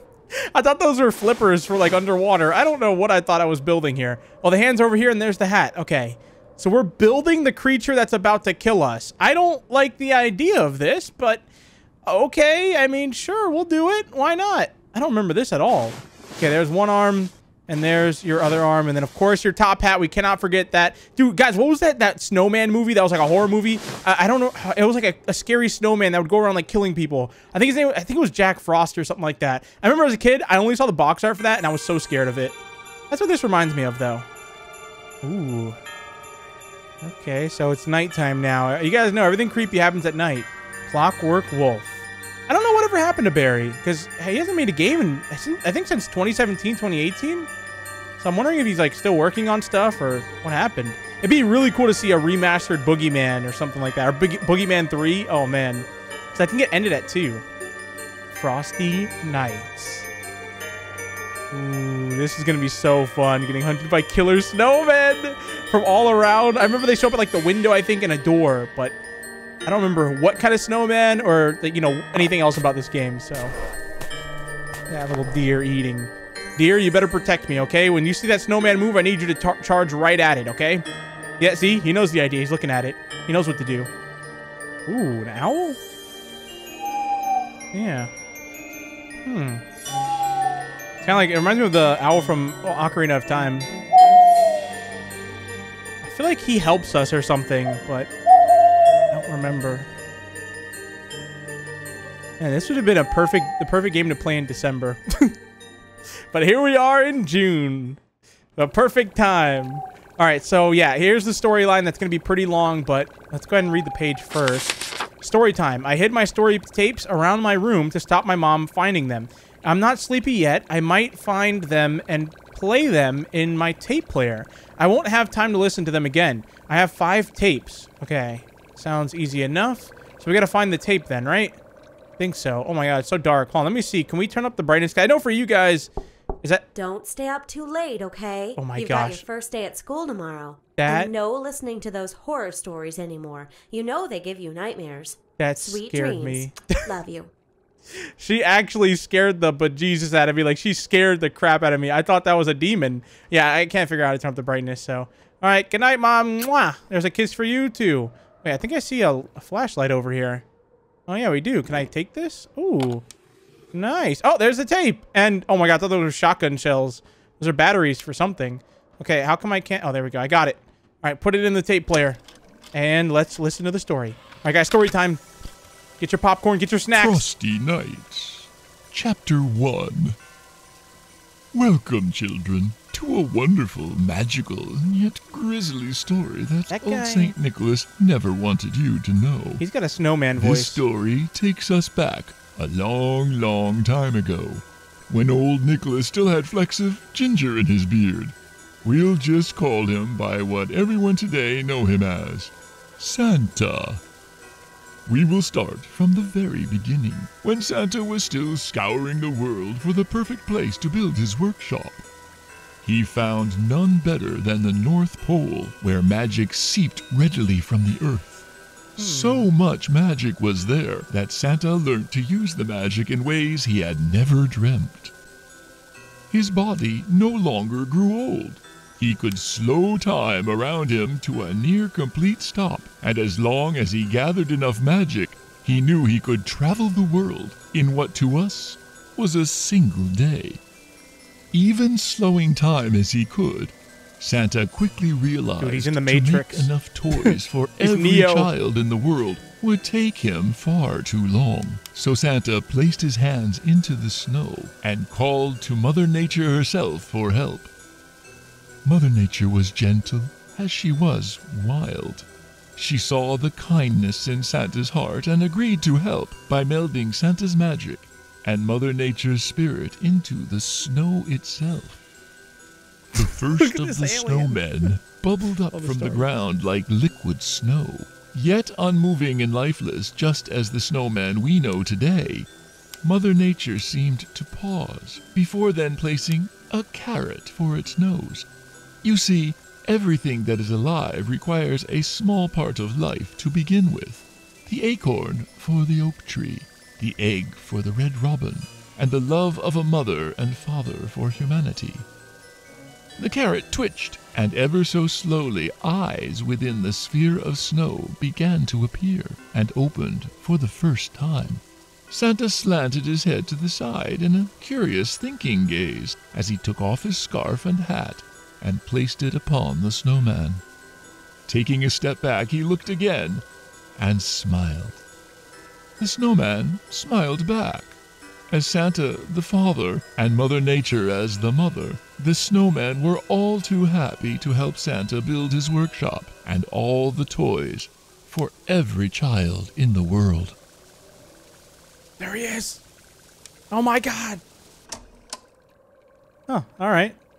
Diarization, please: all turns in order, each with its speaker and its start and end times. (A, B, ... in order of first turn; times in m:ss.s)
0:00.5-0:11.4 A
0:12.1-0:32.6 A
0:33.1-0:34.3 A
0:35.2-0:35.8 A
0:37.0-0:47.5 A
0:48.2-0:57.4 A
0:58.3-1:00.1 A
1:01.5-1:09.0 A
1:09.6-1:13.5 A
1:14.9-1:20.8 A
1:21.4-1:23.9 A
1:24.9-1:25.8 A
1:27.7-1:28.1 A
1:29.2-1:29.6 A
1:31.0-1:33.7 A
1:36.0-1:38.1 A
1:39.1-1:39.9 A
1:42.4-1:45.3 A
1:46.3-1:48.0 A
1:48.6-2:11.6 A
2:12.2-2:15.9 A
2:16.8-2:27.3 B
2:18.6-2:19.2 A
2:20.8-2:21.1 A
2:25.4-2:26.8 A
2:28.2-2:40.4 A
2:41.1-2:43.0 A
2:43.7-2:52.2 A
2:52.7-2:55.2 A
2:56.0-2:57.3 A
2:57.0-3:00.2 C
3:01.5-3:09.6 C
3:06.7-3:07.4 A
3:09.6-3:10.8 A
3:10.4-3:24.0 C
3:25.1-3:32.0 C
3:32.8-3:45.1 C
3:39.0-3:39.5 A
3:46.3-4:00.6 C
4:01.5-4:17.7 C
4:05.6-4:08.5 A
4:18.8-4:32.0 C
4:33.1-4:42.5 C
4:33.2-4:34.9 A
4:35.7-4:36.3 A
4:43.0-4:48.5 C
4:49.0-5:02.1 C
5:03.2-5:20.6 C
5:21.5-5:23.4 C
5:24.0-5:25.0 C
5:26.0-5:40.6 C
5:42.2-5:42.8 A
5:43.7-5:44.4 A
5:46.5-5:47.2 A